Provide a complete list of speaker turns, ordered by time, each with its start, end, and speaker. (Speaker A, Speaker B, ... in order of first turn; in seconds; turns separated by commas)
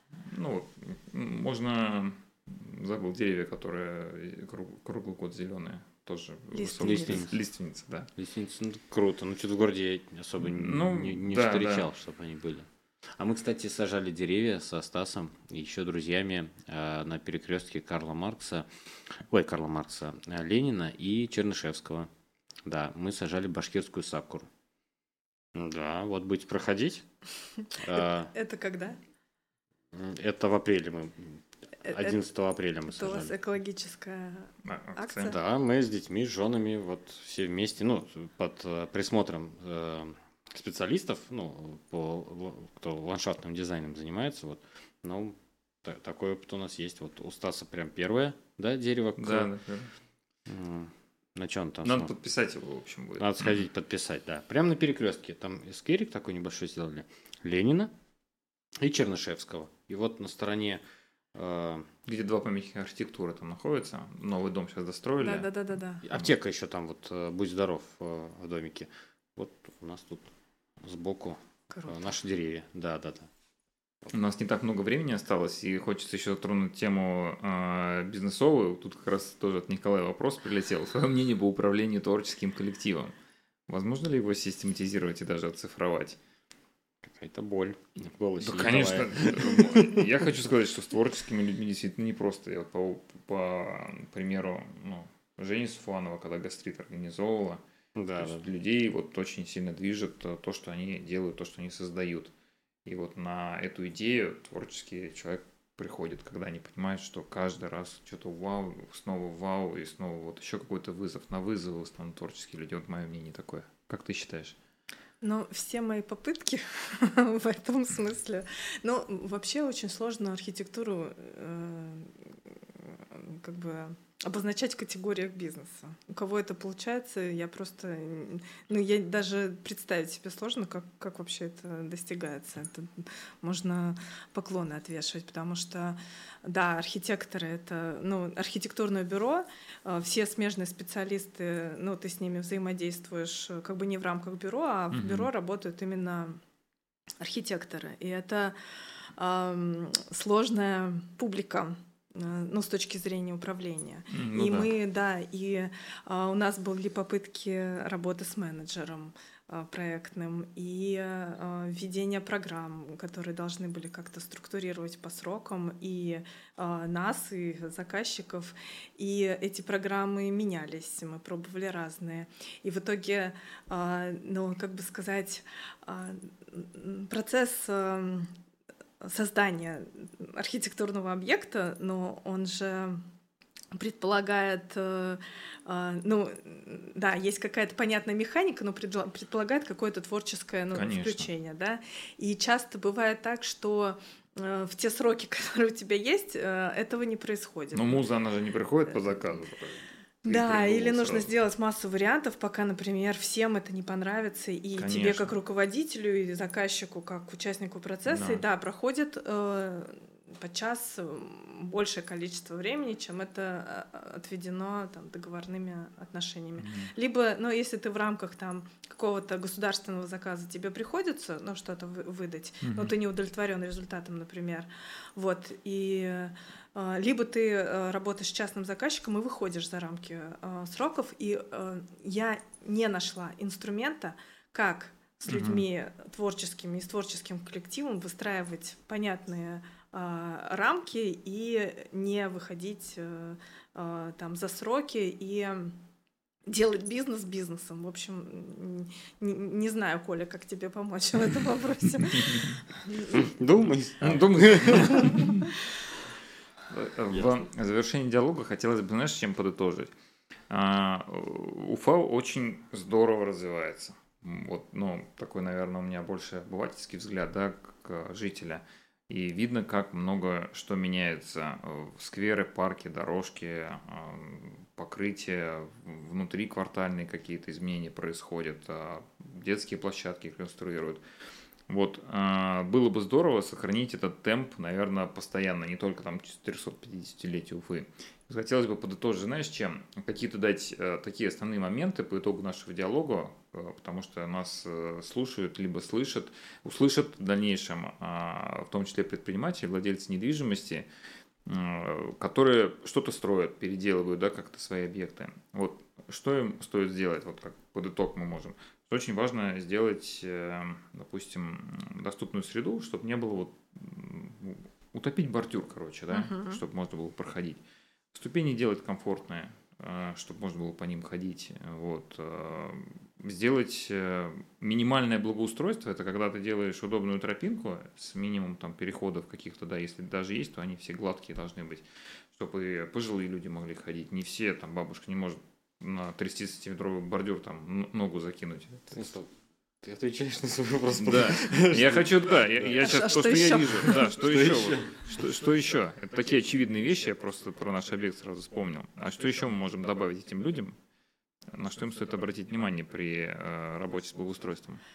Speaker A: 0.2-8.1, Speaker B: 6.5-7.2, Speaker C: 6.8-7.4, Speaker C: 8.2-22.1, Speaker A: 10.4-11.9, Speaker C: 22.6-24.5, Speaker C: 25.5-27.1, Speaker B: 27.6-29.0, Speaker C: 27.8-28.3, Speaker C: 29.9-33.3, Speaker B: 31.8-32.2, Speaker B: 32.9-35.4, Speaker A: 34.6-35.3, Speaker C: 35.2-49.5, Speaker A: 49.2-49.9, Speaker C: 50.5-52.1, Speaker A: 51.8-53.6, Speaker C: 53.2-57.9, Speaker C: 58.8-60.8, Speaker C: 61.3-61.9, Speaker A: 62.1-65.5, Speaker B: 65.2-66.0, Speaker C: 66.0-73.3, Speaker B: 71.7-72.0, Speaker A: 74.1-83.1, Speaker A: 83.7-86.2, Speaker C: 87.0-90.1, Speaker A: 88.4-97.6, Speaker C: 98.0-98.5, Speaker A: 98.2-102.3, Speaker A: 102.8-114.6, Speaker B: 115.2-146.4, Speaker A: 144.9-145.3, Speaker B: 147.2-178.3, Speaker A: 154.1-154.7, Speaker B: 179.0-183.0, Speaker B: 183.7-198.0, Speaker A: 190.7-191.3, Speaker A: 197.7-201.3, Speaker B: 200.2-245.8, Speaker A: 204.8-205.3, Speaker A: 208.1-208.4, Speaker A: 216.6-216.9, Speaker A: 222.6-222.9, Speaker A: 235.3-235.6, Speaker B: 246.4-253.2, Speaker A: 252.1-252.5, Speaker C: 253.1-255.3, Speaker A: 254.0-255.5, Speaker A: 256.7-259.9, Speaker A: 260.5-281.0, Speaker A: 281.7-300.9, Speaker A: 301.4-317.6, Speaker B: 316.1-316.6, Speaker A: 318.1-338.9, Speaker C: 338.9-339.3, Speaker C: 339.8-343.0, Speaker A: 341.0-350.8, Speaker B: 342.8-344.0, Speaker C: 343.9-344.9, Speaker A: 351.5-354.8